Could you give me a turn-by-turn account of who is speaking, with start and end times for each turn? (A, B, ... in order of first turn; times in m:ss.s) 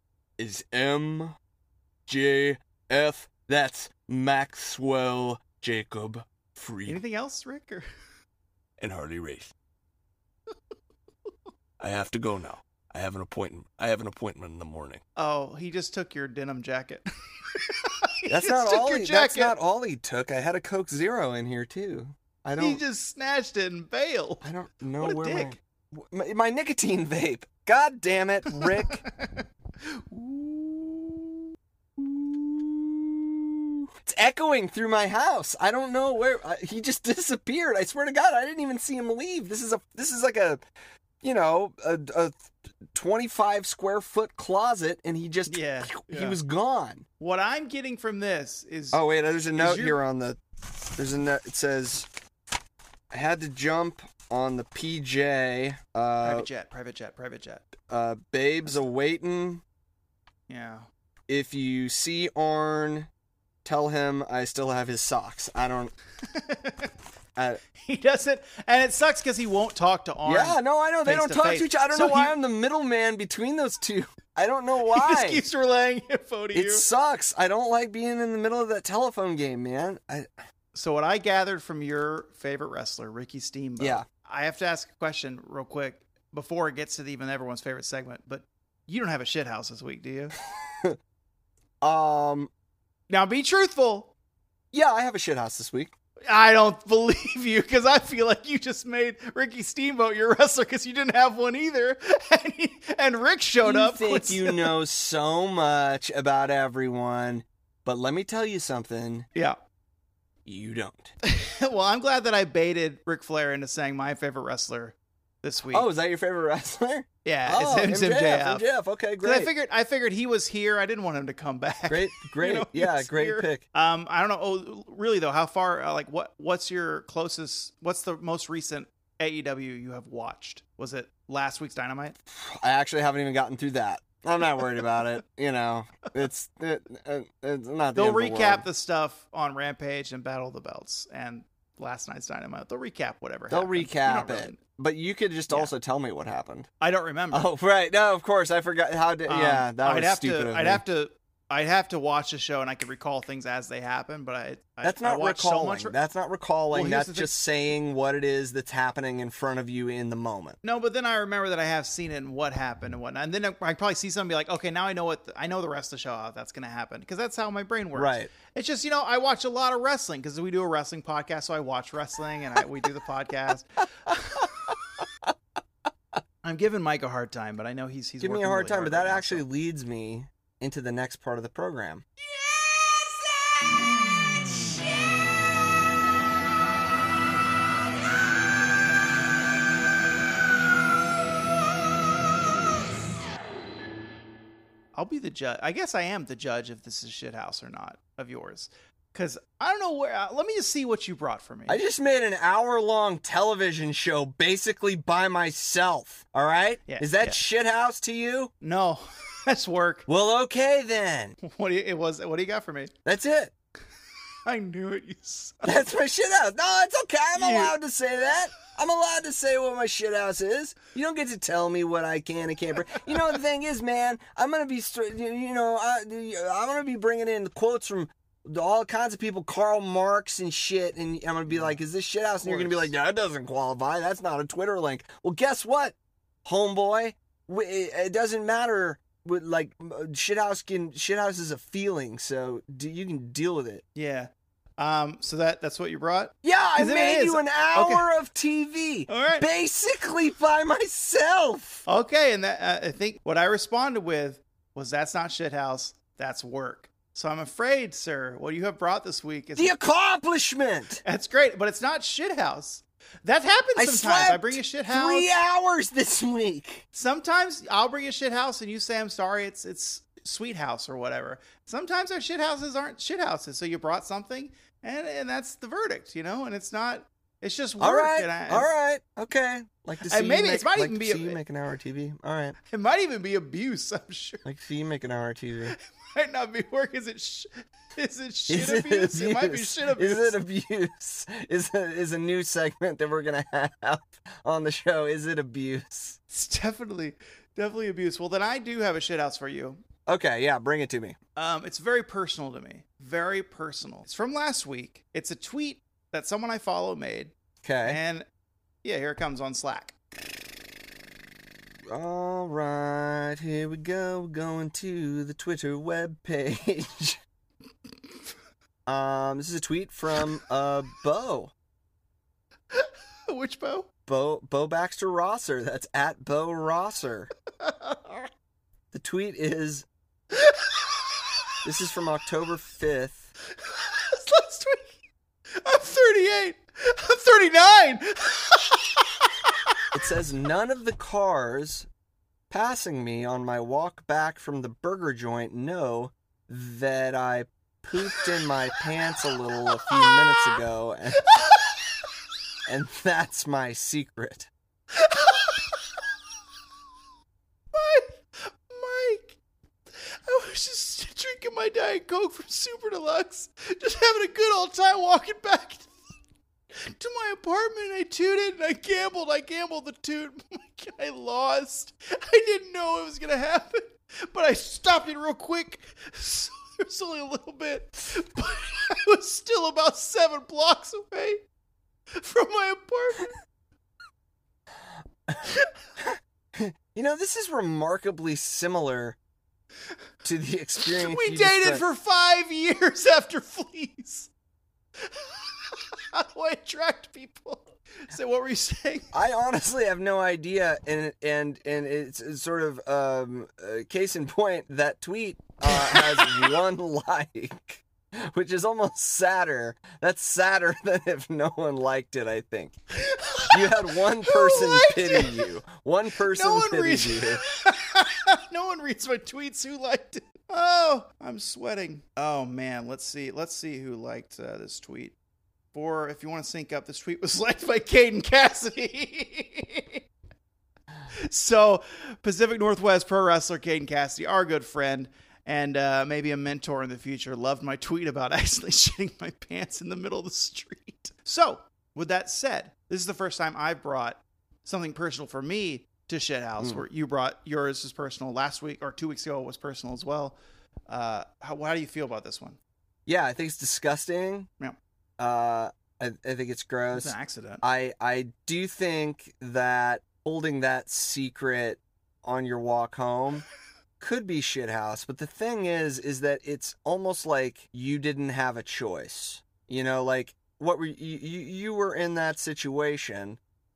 0:00.4-0:01.4 A
0:02.1-0:07.0 A
0:06.9-0:07.9 B
0:08.8-0:09.5 A
0:11.8-0:15.0 A
0:15.2-0:19.6 B
0:18.3-0:22.8 A
0:22.6-0:24.4 B
0:24.4-0:29.0 A
0:25.0-0:25.5 B
0:28.5-0:31.4 B
0:32.0-0:40.6 A
0:41.2-0:47.0 A
0:45.5-0:46.4 B
0:47.2-0:49.0 B
0:48.9-0:50.4 A
0:49.6-0:50.0 B
0:51.0-0:52.1 A
0:53.1-0:56.5 A
0:56.2-0:57.7 B
0:57.8-0:59.6 A
1:00.5-1:00.9 B
1:01.3-1:03.1 A
1:03.6-1:05.9 A
1:06.3-1:06.9 B
1:07.4-1:07.6 A
1:07.8-1:12.4 B
1:10.2-1:15.4 A
1:14.9-1:16.9 B
1:16.5-1:20.3 A
1:20.8-1:30.4 B
1:23.8-1:24.0 A
1:30.7-1:31.0 A
1:31.8-1:32.5 A
1:33.1-1:34.1 B
1:34.7-1:35.9 A
1:36.3-1:44.8 B
1:43.6-1:49.3 A
1:50.5-1:51.1 A
1:51.2-1:55.9 B
1:55.7-1:59.5 A
1:57.2-1:58.6 B
1:59.2-2:12.2 B
2:01.9-2:03.6 A
2:12.3-2:18.6 A
2:18.0-2:24.6 B
2:23.5-2:26.7 A
2:26.8-2:27.5 B
2:27.3-2:30.8 A
2:29.3-2:36.0 B
2:34.8-2:40.6 A
2:36.7-2:37.4 B
2:40.6-2:54.7 B
2:48.0-2:48.3 A
2:56.4-2:59.4 B
2:58.2-3:02.1 A
3:15.0-3:21.8 B
3:21.7-3:28.5 A
3:26.9-3:27.4 B
3:28.6-3:30.1 B
3:30.1-3:31.4 A
3:31.4-3:32.9 B
3:33.0-3:33.5 A
3:34.5-3:35.8 B
3:35.6-4:03.8 A
3:37.4-3:37.8 B
3:51.5-3:51.8 B
3:52.4-3:52.9 B
4:04.0-4:08.1 B
4:06.4-4:11.8 A
4:09.1-4:09.5 B
4:11.9-4:19.8 B
4:19.6-4:21.0 A
4:21.0-4:25.3 B
4:23.8-4:26.8 A
4:26.9-4:38.7 B
4:37.8-4:42.6 A
4:40.0-4:41.4 B
4:42.6-4:44.4 B
4:44.4-4:45.8 A
4:45.7-4:50.4 B
4:48.5-4:56.2 A
4:56.3-4:59.8 B
5:00.1-5:01.2 A
5:01.4-5:07.3 B
5:07.6-5:08.0 A
5:07.8-5:08.2 B
5:08.8-5:10.0 B
5:11.9-5:17.2 A
5:18.9-5:21.5 A
5:22.7-5:23.9 B
5:24.1-5:27.3 A
5:27.6-5:28.2 B
5:28.9-5:29.9 A
5:30.3-5:31.1 B
5:31.6-5:33.3 A
5:33.5-5:34.9 B
5:35.6-5:39.3 B
5:39.9-5:41.9 A
5:42.5-5:51.2 A
5:49.7-5:50.4 B
5:51.2-5:51.7 B
5:52.7-5:54.5 A
5:54.9-5:56.0 B
5:57.7-5:59.4 B
6:00.0-6:05.9 B
6:06.8-6:21.4 B
6:22.2-6:23.3 B
6:26.0-6:29.2 A
6:30.2-6:31.8 A
6:30.8-6:34.3 B
6:35.0-6:39.1 B
6:39.1-6:52.8 A
6:45.7-6:46.5 B
6:52.9-6:55.5 B
6:53.5-6:57.4 A
6:56.2-7:05.2 B
7:05.7-7:10.0 B
7:11.2-7:30.4 B
7:30.9-7:32.6 B
7:33.1-7:34.5 A
7:35.2-7:43.4 A
7:36.9-7:37.6 B
7:44.0-7:53.4 A